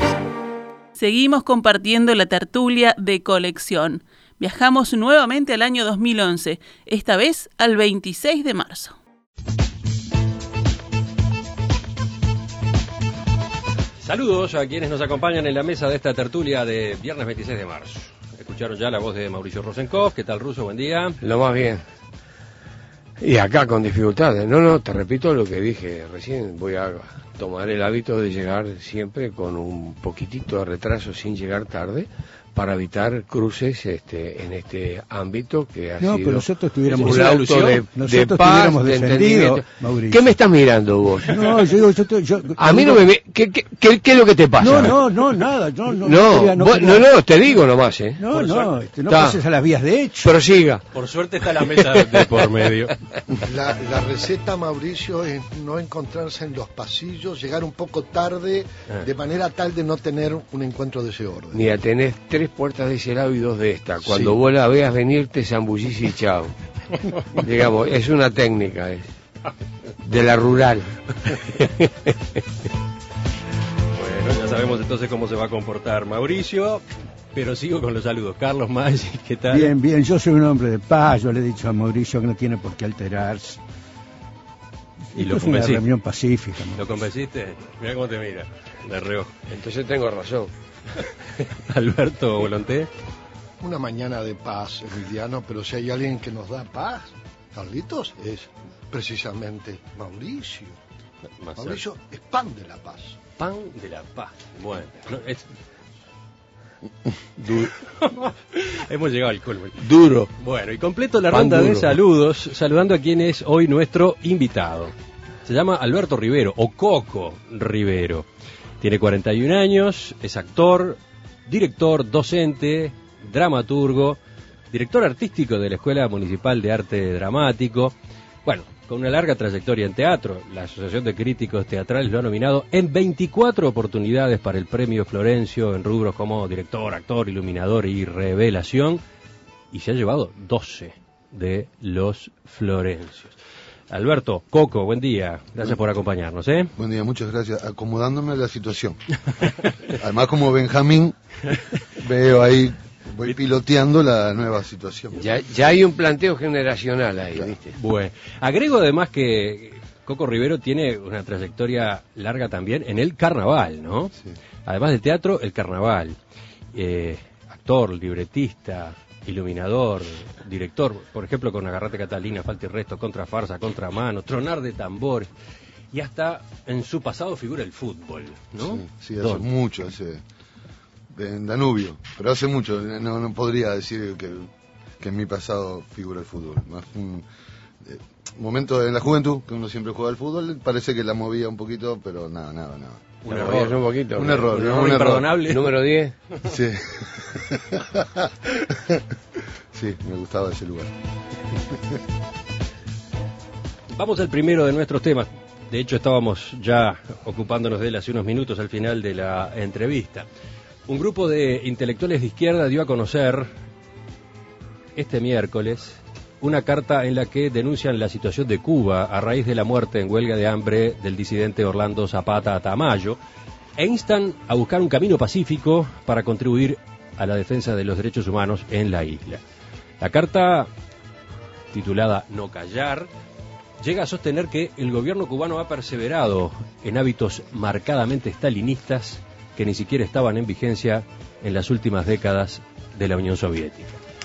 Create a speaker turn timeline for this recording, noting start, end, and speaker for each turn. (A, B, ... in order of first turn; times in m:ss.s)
0:00.9-0:09.0 A
0:14.0-0:21.2 B
0:21.2-0:21.8 C
0:23.2-0:41.7 C
0:36.0-0:40.2 D
0:36.9-0:37.8 B
0:41.2-0:43.0 D
0:42.6-0:45.1 C
0:44.6-0:47.1 D
0:46.0-0:48.3 C
0:48.2-0:50.3 D
0:49.1-0:49.4 C
0:50.2-0:50.9 C
0:50.9-0:53.0 B
0:51.6-0:52.4 C
0:53.4-1:01.7 E
1:01.5-1:06.5 C
1:04.0-1:04.4 E
1:07.3-1:09.1 C
1:10.0-1:12.1 C
1:13.9-1:16.8 B
1:17.3-1:19.7 B
1:19.5-1:23.6 D
1:25.1-1:26.8 D
1:25.2-1:25.8 B
1:26.7-1:29.4 B
1:29.5-1:30.5 C
1:31.0-1:32.9 B
1:33.6-1:40.8 E
1:41.4-1:41.8 B
1:41.6-1:43.2 E
1:43.4-1:45.4 B
1:47.4-1:47.7 C
1:47.6-1:49.8 B
1:49.8-1:50.3 C
1:50.4-1:54.9 B
1:51.3-1:52.0 C
1:55.4-1:58.3 B
1:58.8-2:04.2 B
2:04.7-2:19.0 B
2:19.7-2:23.4 B
2:23.9-2:26.7 B
2:26.8-2:31.2 F
2:31.9-2:35.2 F
2:35.2-2:37.8 C
2:37.7-2:44.1 B
2:44.6-2:46.2 B
2:46.7-2:55.3 B
2:55.9-2:59.4 B
2:58.6-3:00.2 F
3:01.1-3:07.2 F
3:07.8-3:13.4 F
3:13.2-3:15.8 B
3:13.3-3:14.5 C
3:14.2-3:15.4 F
3:15.4-3:16.1 C
3:16.4-3:19.0 F
3:19.7-3:20.9 F
3:23.9-3:30.3 B
3:30.9-3:33.5 B
3:35.0-3:43.2 B
3:43.8-3:49.4 B
3:50.0-3:50.7 B
3:51.7-3:53.1 B
3:53.8-4:04.0 B